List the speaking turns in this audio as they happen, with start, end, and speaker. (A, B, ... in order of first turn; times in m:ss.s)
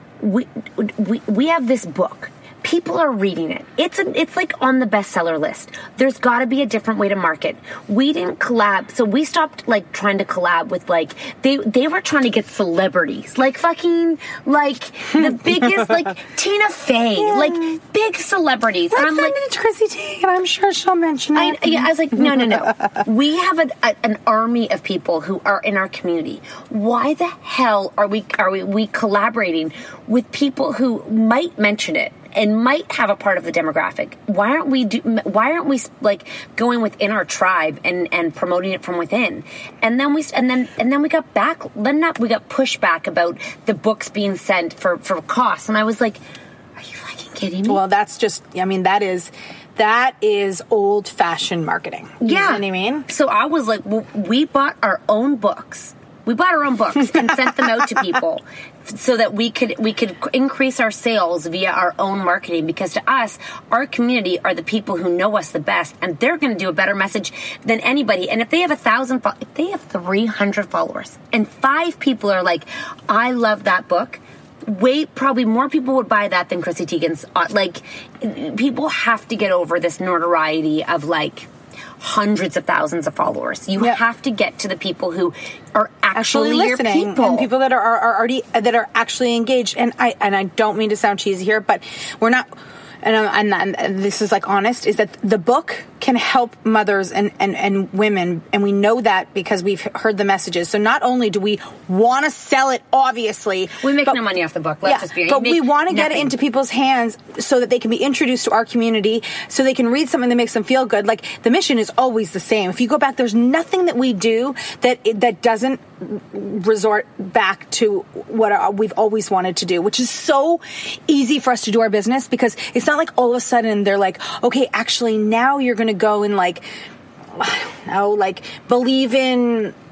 0:00.2-0:19.4 A
0:17.2-0:17.8 B
0:18.9-0:22.8 B
0:21.4-0:46.2 A
0:46.8-0:47.8 A
0:47.6-0:53.1 B
0:52.2-1:21.5 A
1:22.0-1:27.5 A
1:26.1-1:32.5 B
1:33.0-1:44.2 B
1:43.8-1:46.3 A
1:44.8-2:06.6 B
2:07.4-2:09.7 B